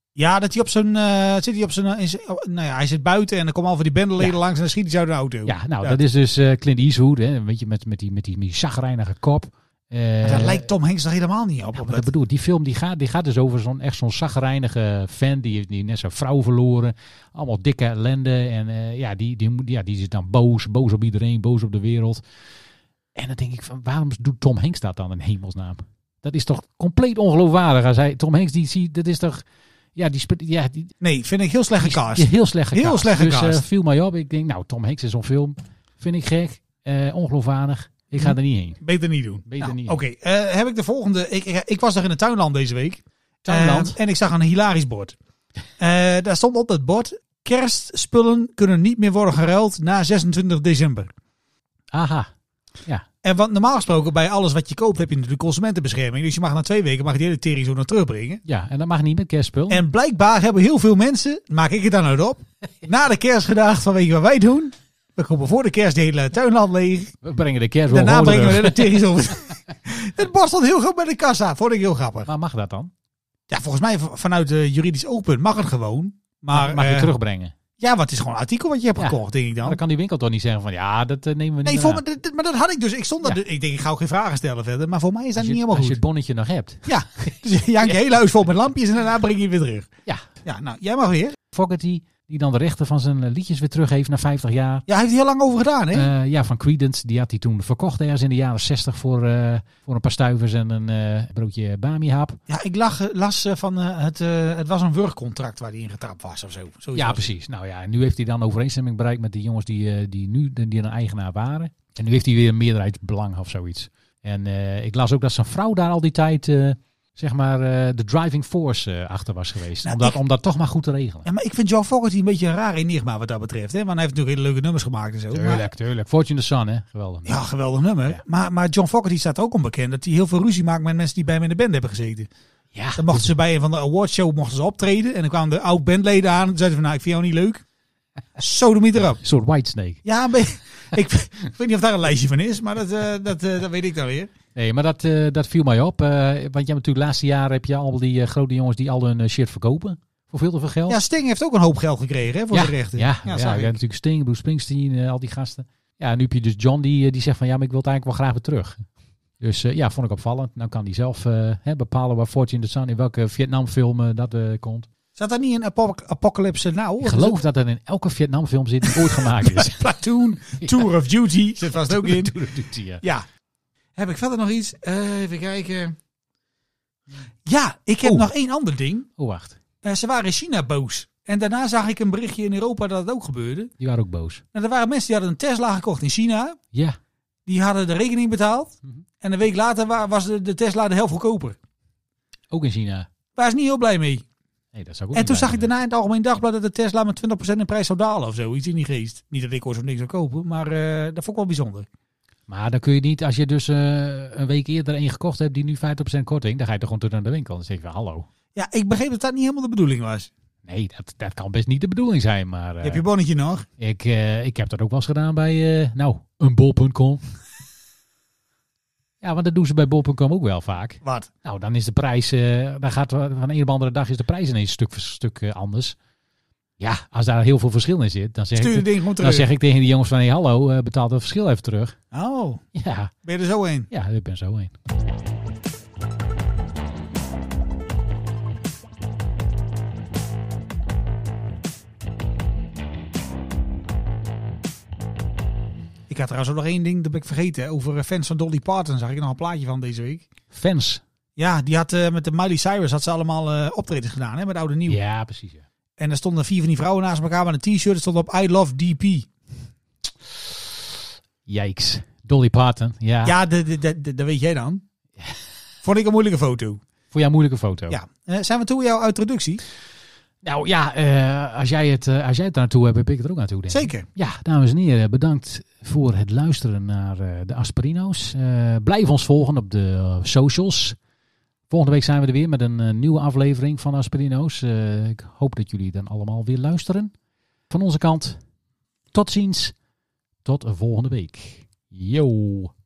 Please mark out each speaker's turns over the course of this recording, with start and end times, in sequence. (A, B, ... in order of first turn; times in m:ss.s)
0:00.2-0:06.0 A
0:05.5-0:10.7 B
0:10.2-0:12.1 A
0:11.8-0:22.2 B
0:23.2-0:29.4 B
0:30.0-0:30.9 B
0:31.0-0:33.6 A
0:31.8-0:38.8 B
0:38.2-0:45.2 A
0:39.5-0:40.0 B
0:43.4-0:44.0 B
0:45.8-0:51.1 A
0:51.9-0:52.3 B
0:53.2-0:58.4 A
0:58.5-0:59.8 B
0:59.7-1:07.2 A
1:07.2-1:09.0 B
1:07.9-1:12.3 A
1:12.3-1:12.9 B
1:13.5-1:17.1 A
1:16.5-1:17.6 B
1:17.8-1:19.8 A
1:19.0-1:22.0 B
1:21.6-1:26.0 A
1:25.4-1:26.9 B
1:26.8-1:29.9 A
1:30.4-1:31.4 A
1:31.5-1:34.8 B
1:34.9-1:36.1 A
1:35.9-1:42.4 B
1:42.5-1:47.3 A
1:47.0-2:01.3 B
1:59.8-2:00.2 A
2:01.2-2:05.7 A
2:05.3-2:07.4 B
2:07.3-2:12.3 A
2:12.7-2:13.3 B
2:13.0-2:17.6 A
2:18.4-2:19.2 A
2:19.2-2:20.0 B
2:20.0-2:24.3 A
2:24.6-2:31.0 B
2:30.9-2:33.7 A
2:32.5-2:38.8 B
2:39.4-2:44.9 B
2:45.2-2:47.4 A
2:47.0-2:49.8 B
2:48.9-2:52.4 A
2:51.8-2:53.0 B
2:53.0-2:53.3 A
2:54.0-2:56.0 A
2:57.5-2:59.1 A
2:58.0-2:58.3 B
2:59.2-2:59.6 B
2:59.8-3:03.7 A
3:03.8-3:04.4 B
3:04.5-3:06.6 A
3:06.7-3:07.0 B
3:07.5-3:11.6 A
3:12.5-3:13.1 B
3:13.4-3:14.2 A
3:14.7-3:15.7 B
3:15.1-3:21.9 A
3:22.5-3:28.3 B
3:28.6-3:30.3 A
3:30.6-3:33.0 B
3:32.8-3:33.7 A
3:33.8-3:37.2 B
3:39.2-3:46.0 B
3:41.0-3:41.3 A
3:46.8-3:52.0 B
3:48.6-3:49.5 A
3:52.1-3:52.7 A
3:52.8-3:53.1 B
3:53.2-3:53.9 A
3:53.9-3:54.7 B
4:06.1-4:10.3 A
4:10.5-4:11.0 B
4:11.4-4:15.0 A
4:14.9-4:15.6 B
4:16.0-4:19.3 A
4:21.5-4:23.4 B
4:23.2-4:24.8 A
4:25.8-4:26.8 A
4:27.1-4:28.0 B
4:27.9-4:29.6 A
4:30.4-4:41.0 B
4:33.7-4:34.1 A
4:41.7-4:47.1 B
4:47.7-4:48.4 B
4:49.1-4:49.7 B
4:50.4-4:52.7 B